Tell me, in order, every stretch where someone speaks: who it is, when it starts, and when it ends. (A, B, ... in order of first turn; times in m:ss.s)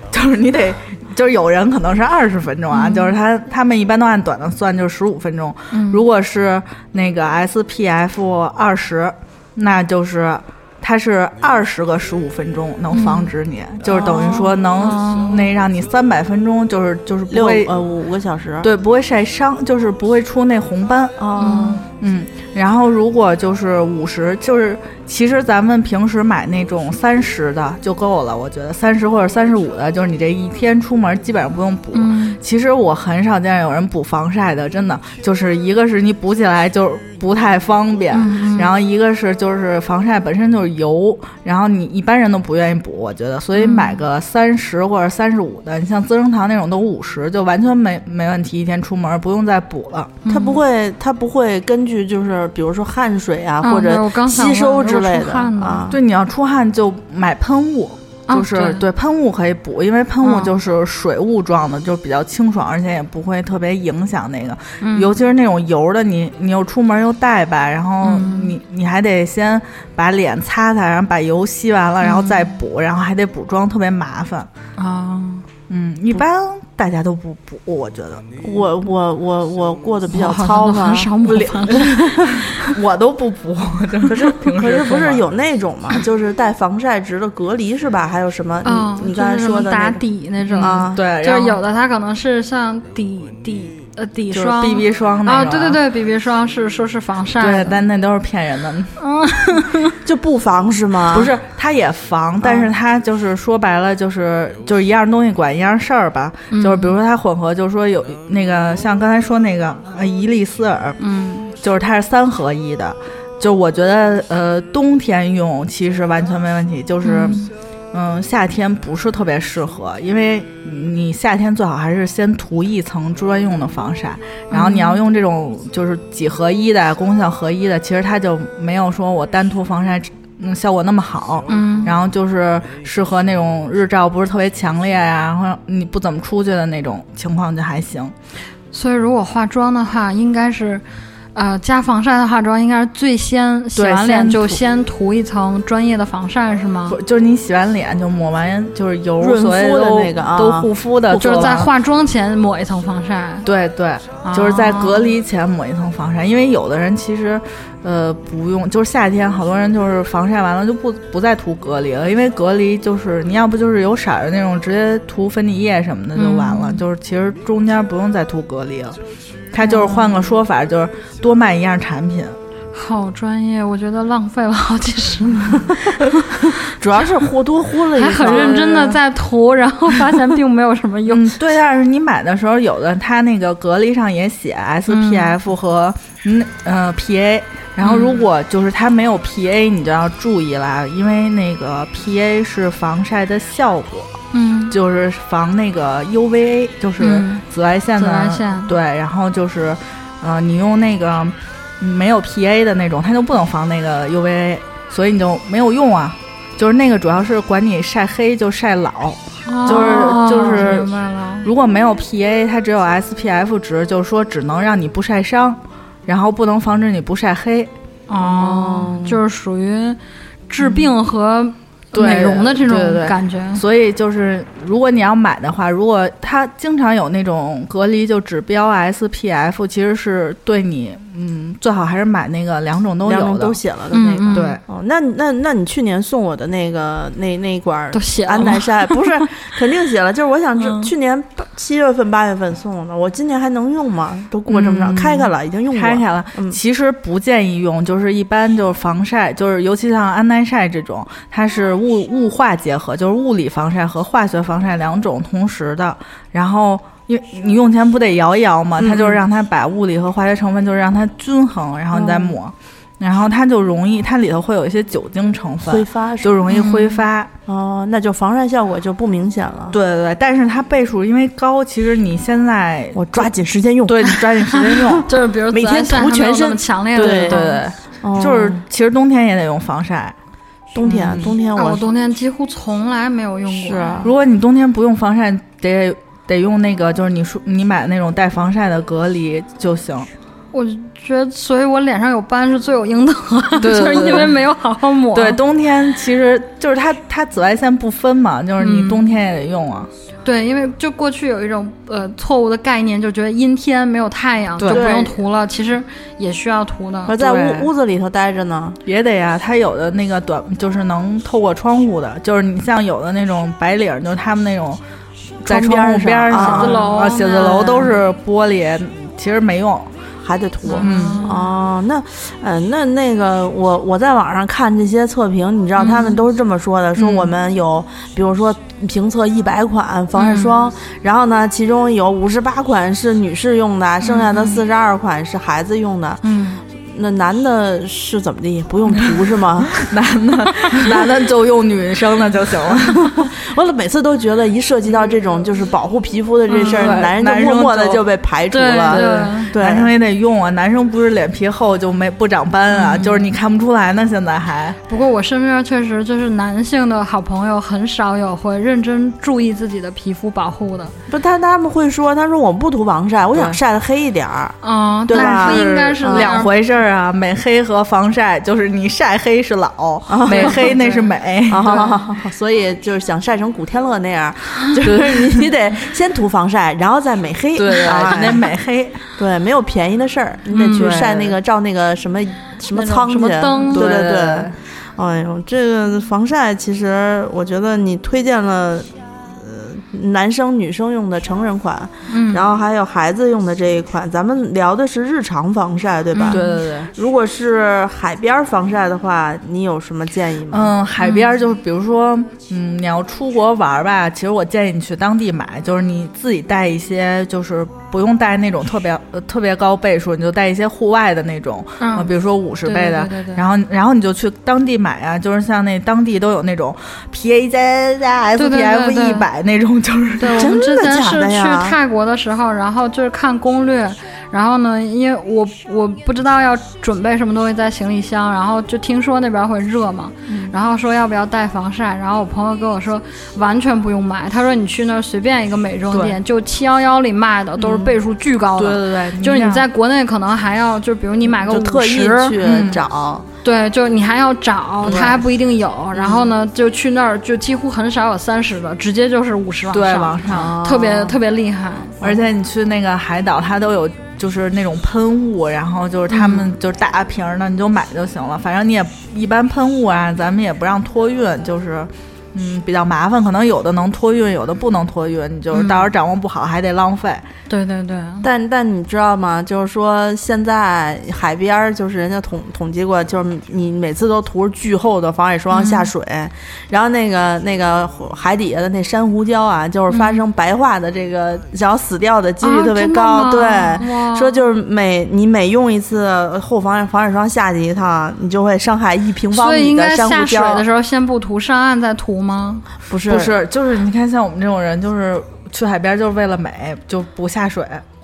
0:00.1-0:17.7 A
0:02.7-0:03.2 B
0:05.7-0:06.0 B
0:12.9-0:13.3 B
0:13.9-0:15.5 B
0:17.3-0:18.7 C
0:18.6-0:21.2 A
0:21.2-0:21.9 C
0:21.3-0:21.8 B
0:22.0-0:50.1 A
0:31.9-0:32.4 B
0:38.1-0:38.8 B
0:43.5-0:44.0 B
0:50.2-0:50.6 B
0:50.3-0:56.0 C
0:53.6-0:55.9 B
0:55.9-1:14.5 A
0:58.3-0:58.8 B
1:00.2-1:00.6 B
1:04.8-1:05.1 B
1:08.0-1:08.5 B
1:12.0-1:12.5 B
1:14.8-1:15.4 B
1:15.7-1:18.2 A
1:18.4-1:21.8 C
1:20.1-1:22.6 B
1:21.5-1:25.2 A
1:24.1-1:30.0 C
1:28.6-1:37.8 B
1:30.4-1:31.6 A
1:30.6-1:31.0 C
1:34.3-1:35.8 A
1:37.4-1:39.0 A
1:39.0-1:39.9 B
1:40.0-1:41.3 C
1:41.1-1:51.0 A
1:42.4-1:42.7 C
1:46.5-1:47.0 B
1:51.0-1:51.5 B
1:51.6-2:18.1 A
1:57.0-1:57.5 B
2:04.5-2:05.0 B
2:11.5-2:11.9 B
2:18.7-2:20.8 B
2:21.3-2:27.0 B
2:23.8-2:24.6 A
2:26.9-2:31.7 A
2:29.2-2:31.5 C
2:31.1-2:33.5 B
2:33.4-2:49.0 A
2:34.2-2:35.2 B
2:46.1-2:46.8 B
2:49.5-2:52.4 A
2:49.6-2:50.2 B
2:52.7-2:56.0 B
2:56.8-2:59.0 C
2:58.0-3:01.4 B
3:01.1-3:14.1 A
3:04.9-3:05.3 B
3:07.8-3:08.2 B
3:14.3-3:14.8 B
3:14.7-3:30.9 A
3:17.0-3:17.4 B
3:18.0-3:18.7 B
3:29.4-3:31.5 B
3:31.4-3:39.2 A
3:38.1-3:43.6 B
3:40.6-3:40.9 A
3:41.9-3:53.6 A
3:53.0-4:06.6 C
3:53.9-3:54.6 B
3:54.3-3:54.6 A
3:57.9-3:59.1 B
4:00.6-4:00.9 A
4:04.5-4:27.3 A
4:18.8-4:19.2 C
4:21.9-4:22.4 C
4:25.6-4:26.4 C
4:26.5-4:27.0 B
4:27.4-4:29.8 C
4:29.7-4:33.3 A
4:32.9-4:37.4 C
4:33.8-4:35.1 A
4:34.9-4:37.6 B
4:36.9-4:40.1 A
4:38.0-4:38.6 C
4:40.7-4:41.9 C
4:40.8-4:41.3 A
4:41.5-4:44.0 B
4:43.5-4:44.1 C
4:44.0-4:50.1 A
4:50.5-4:55.4 B
4:53.6-4:54.4 A
4:55.1-4:59.9 A
4:58.6-4:59.0 B
5:00.2-5:07.2 B
5:04.6-5:04.8 A
5:04.7-5:05.1 C
5:07.1-5:08.8 C
5:07.2-5:07.7 A
5:08.8-5:14.8 A
5:15.4-5:19.9 A
5:15.4-5:16.8 C
5:16.3-5:18.0 B
5:17.4-5:17.9 C
5:20.2-5:36.2 C
5:20.6-5:21.5 B
5:20.8-5:21.2 A
5:25.8-5:26.2 B
5:27.0-5:27.3 A
5:30.2-5:30.6 B
5:34.0-5:34.6 B
5:36.2-5:36.6 B
5:36.8-5:39.8 C
5:39.7-5:43.2 A
5:43.1-5:49.9 C
5:46.5-5:48.0 A
5:46.5-5:47.0 B
5:48.5-5:49.5 B
5:48.8-5:54.8 A
5:52.7-5:53.3 B
5:54.9-6:00.9 B
6:01.1-6:04.5 C
6:04.6-6:06.5 B
6:05.1-6:06.4 C
6:05.1-6:11.9 A
6:10.1-6:10.8 C
6:10.3-6:11.1 B
6:11.5-6:18.5 C
6:11.7-6:12.0 B
6:14.8-6:15.5 A
6:17.5-6:19.0 A
6:19.2-6:40.7 C
6:20.5-6:21.4 A
6:22.7-6:23.9 B
6:23.6-6:24.6 A
6:32.1-6:32.5 B
6:36.1-6:36.5 B
6:36.3-6:36.9 A
6:40.5-7:00.5 A
6:41.0-6:41.3 B
6:51.8-6:52.1 B
6:52.6-6:53.4 B
6:58.4-6:59.3 B
7:00.2-7:22.4 B
7:00.3-7:01.8 C
7:10.3-7:10.5 A
7:15.9-7:16.2 A
7:17.6-7:17.9 C
7:18.6-7:19.7 A
7:21.3-7:23.2 C
7:22.4-7:22.8 A
7:23.4-7:32.0 B
7:24.8-7:25.2 C
7:24.8-7:25.2 A
7:25.9-7:26.3 C
7:29.7-7:30.5 A
7:30.3-7:31.2 C
7:32.0-7:47.2 A
7:36.1-7:36.4 B
7:45.5-7:45.9 B
7:47.5-7:48.3 B
7:48.2-8:10.6 C
7:55.5-7:55.9 B
7:59.9-8:00.2 B
8:02.4-8:04.4 B
8:09.3-8:12.6 B
8:12.9-8:13.4 C
8:13.1-8:17.8 A